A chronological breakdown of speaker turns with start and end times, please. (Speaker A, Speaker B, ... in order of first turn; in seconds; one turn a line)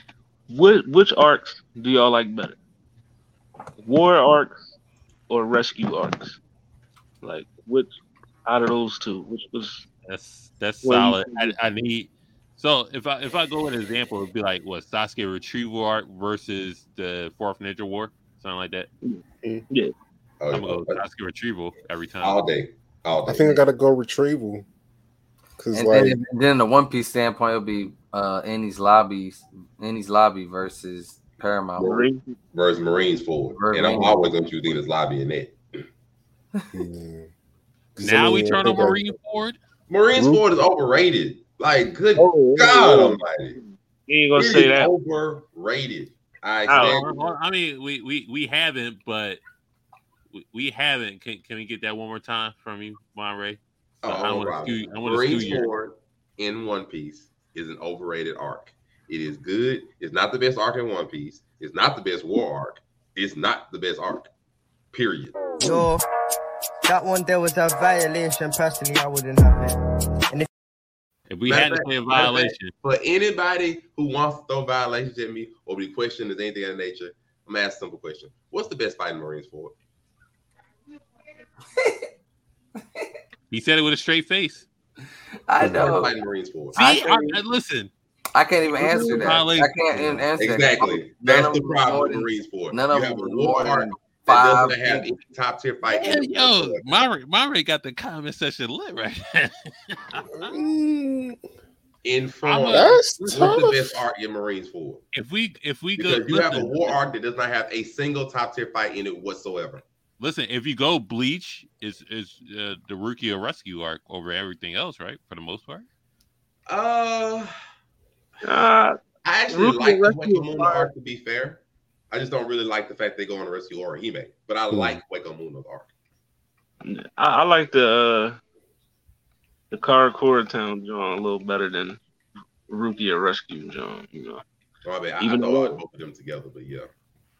Speaker A: 0.5-2.5
Speaker A: 3.8-4.7
Speaker A: 5.3-6.4
Speaker A: 7.2-9.8
Speaker B: 10.1-18.9
Speaker A: 10.8-11.5
Speaker A: 19.0-19.9
Speaker C: 20.4-21.0
Speaker B: 20.5-22.4
Speaker C: 22.2-23.6
Speaker D: 23.2-24.6
Speaker D: 25.6-26.2
Speaker E: 25.7-32.0
Speaker C: 31.8-32.0
Speaker A: 31.8-32.4
Speaker C: 32.5-35.6
Speaker E: 33.5-34.3
Speaker D: 36.7-37.3
Speaker D: 38.0-39.0
Speaker B: 38.0-39.5
Speaker C: 39.9-43.6
Speaker D: 40.2-40.4
Speaker A: 42.2-44.9
Speaker C: 44.3-47.3
Speaker A: 46.6-47.0
Speaker B: 46.8-49.4
Speaker B: 50.3-55.7
Speaker C: 54.0-64.3
Speaker C: 64.9-65.6
Speaker F: 65.6-66.0
Speaker F: 66.8-69.8
Speaker B: 71.3-72.7
Speaker C: 71.5-79.7
Speaker B: 83.5-84.7
Speaker E: 85.5-86.1
Speaker D: 85.6-86.0
Speaker C: 85.6-86.8
Speaker E: 86.8-87.3
Speaker B: 86.8-87.9
Speaker E: 88.3-95.1
Speaker B: 88.8-90.2
Speaker C: 89.0-89.4
Speaker C: 90.4-96.8
Speaker B: 95.8-100.5
Speaker D: 100.4-101.4
Speaker C: 102.0-105.0
Speaker B: 102.4-103.0
Speaker D: 102.7-104.0
Speaker B: 105.1-107.0
Speaker C: 106.0-109.8
Speaker B: 110.2-115.8
Speaker C: 116.7-117.5
Speaker A: 118.4-119.0
Speaker C: 119.2-125.9
Speaker A: 119.5-120.9
Speaker D: 124.7-125.0
Speaker A: 126.8-128.4
Speaker A: 129.7-132.0
Speaker A: 132.7-134.4
Speaker C: 134.8-136.9
Speaker A: 135.2-135.8